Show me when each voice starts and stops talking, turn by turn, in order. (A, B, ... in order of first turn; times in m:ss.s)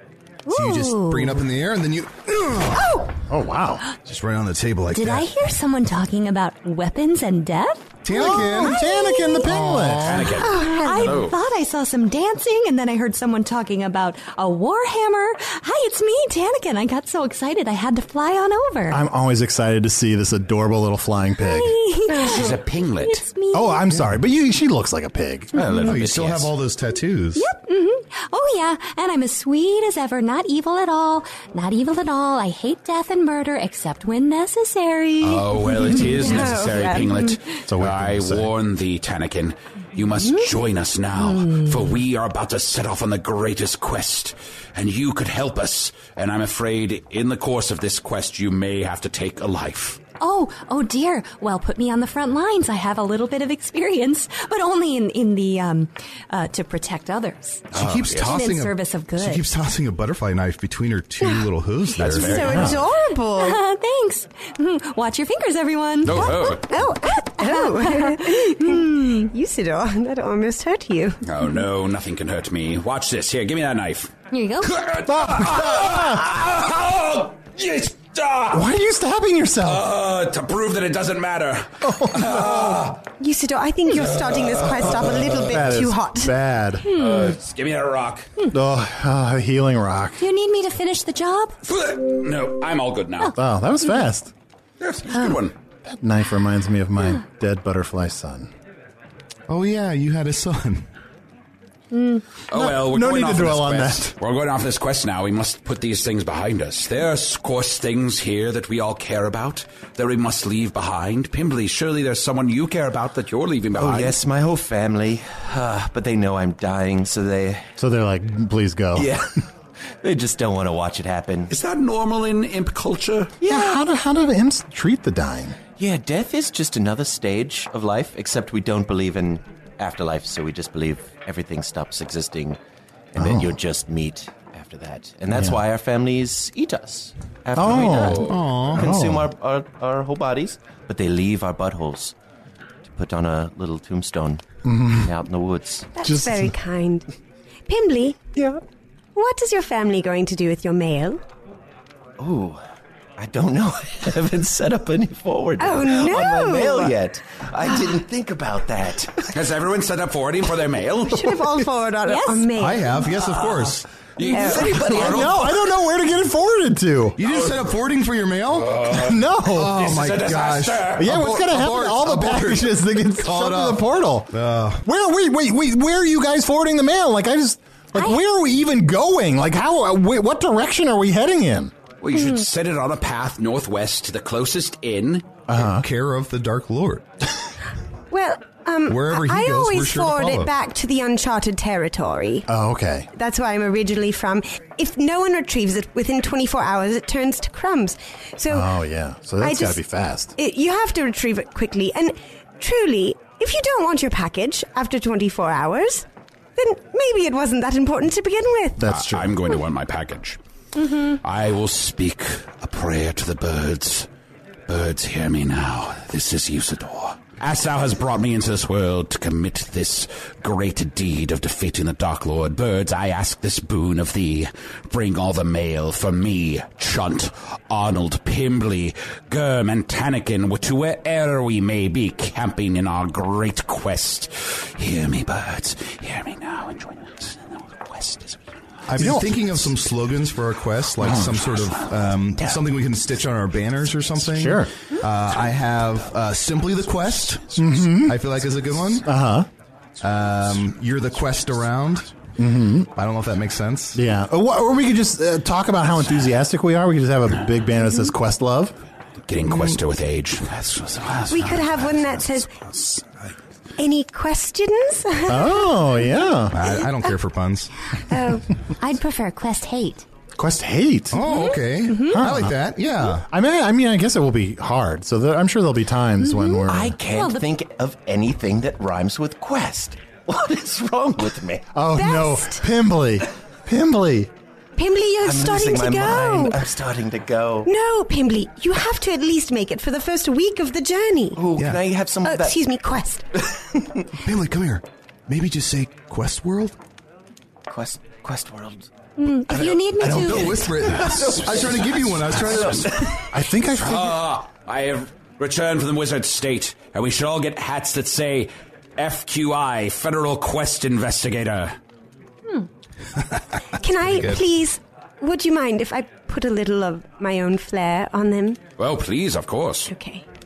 0:00.5-0:01.4 A
0:00.5-0:02.9 B
0:03.3-0:03.8 C
0:04.0-0:05.3 B
0:04.9-0:09.4 A
0:08.0-0:08.8 B
0:08.1-0:10.3 C
0:09.4-0:10.3 B
0:10.0-0:11.4 D
0:10.4-0:11.2 E
0:10.5-0:19.0 A
0:18.9-0:21.8 C
0:21.4-0:23.9 A
0:22.1-0:22.4 E
0:22.2-0:23.2 D
0:23.5-0:25.5 C
0:25.5-0:26.5 D
0:25.6-0:26.0 A
0:25.7-0:27.4 B
0:27.3-0:37.2 A
0:35.2-0:50.0 D
0:36.0-0:37.1 E
0:37.7-0:38.5 C
0:41.3-0:41.7 A
0:50.2-0:59.4 A
0:57.7-0:58.4 D
0:57.7-1:02.6 B
1:02.0-1:02.8 D
1:02.0-1:03.6 E
1:02.4-1:02.8 C
1:03.4-1:06.6 A
1:06.0-1:06.6 D
1:06.3-1:11.2 E
1:07.1-1:09.3 A
1:11.2-1:18.7 D
1:14.3-1:14.7 A
1:15.0-1:16.4 C
1:18.5-1:19.9 C
1:19.6-1:23.0 D
1:21.8-1:22.8 C
1:23.2-1:26.3 E
1:24.0-1:24.8 D
1:25.3-1:26.9 C
1:26.9-1:27.3 A
1:26.9-1:28.3 D
1:28.5-1:30.2 C
1:30.2-1:31.6 A
1:31.6-1:33.3 D
1:33.3-1:34.3 C
1:34.8-1:35.5 D
1:35.1-1:35.4 A
1:35.8-1:38.5 C
1:39.5-1:40.8 B
1:41.9-1:42.2 A
1:42.5-1:54.2 D
1:42.5-1:44.1 C
1:53.7-1:57.6 F
1:57.8-1:59.2 C
1:58.9-1:59.3 F
2:00.0-2:01.5 F
2:01.5-2:03.3 D
2:03.4-2:05.6 C
2:05.8-2:12.6 F
2:13.1-2:22.1 F
2:13.2-2:13.6 C
2:15.3-2:15.6 C
2:17.5-2:19.3 C
2:17.7-2:18.4 D
2:18.2-2:18.8 B
2:22.8-2:24.4 F
2:24.6-2:25.1 C
2:25.0-2:25.9 F
2:25.9-2:27.0 E
2:26.0-2:26.5 C
2:27.7-2:28.2 E
2:29.2-2:31.2 E
2:32.2-2:32.6 F
2:33.2-2:39.3 F
2:35.6-2:37.0 E
2:39.3-2:41.4 D
2:41.1-2:43.1 E
2:42.0-2:42.5 A
2:42.6-2:43.8 B
2:43.2-2:45.7 D
2:44.3-2:45.1 E
2:44.6-2:47.2 C
2:47.2-2:48.8 B
2:47.2-2:47.6 D
2:48.5-2:51.2 D
2:48.9-2:49.9 C
2:49.5-2:54.8 B
2:51.0-2:54.3 C
2:54.8-3:01.7 C
3:02.0-3:05.3 D
3:05.5-3:05.8 C
3:05.6-3:07.0 B
3:08.1-3:12.4 E
3:08.9-3:10.5 B
3:12.5-3:13.1 C
3:13.1-3:18.7 E
3:18.5-3:20.3 C
3:19.4-3:19.8 E
3:20.4-3:26.0 E
3:26.6-3:28.8 E
3:28.8-3:29.4 C
3:28.9-3:30.4 D
3:31.1-3:34.1 D
3:34.7-3:58.4 D
3:58.9-4:09.0 B
3:59.0-3:59.3 C
4:01.0-4:01.4 C
4:01.6-4:01.9 D
4:04.3-4:04.7 C
4:07.6-4:08.2 C
4:09.0-4:09.5 C
4:10.0-4:12.1 B
4:12.4-4:12.9 C
4:13.0-4:14.0 B
4:13.9-4:18.7 C
4:19.2-4:23.3 D
4:19.5-4:19.8 B
4:21.3-4:22.5 E
4:23.8-4:25.7 E
4:25.3-4:26.6 C
4:26.5-4:27.7 B
4:28.1-4:28.4 E
4:28.8-4:30.0 A
4:30.4-4:31.3 C
4:31.1-4:33.2 B
4:31.3-4:31.6 A
4:32.1-4:32.6 C
4:33.3-4:37.0 C
4:36.2-4:37.4 A
4:36.7-4:41.6 F
4:41.7-4:44.3 C
4:41.9-4:42.6 E
4:44.8-4:46.6 E
4:45.2-4:47.7 F
4:47.6-4:51.4 E
4:51.4-4:52.6 F
4:52.2-4:53.2 E
4:54.2-4:56.8 B
4:57.7-4:58.9 F
4:59.2-5:00.7 A
4:59.5-5:03.2 F
4:59.6-5:02.9 B
5:03.3-5:04.2 C
5:03.7-5:11.7 D
5:13.8-5:18.6 E
5:14.0-5:14.4 B
5:18.8-5:19.9 D
5:19.9-5:20.2 E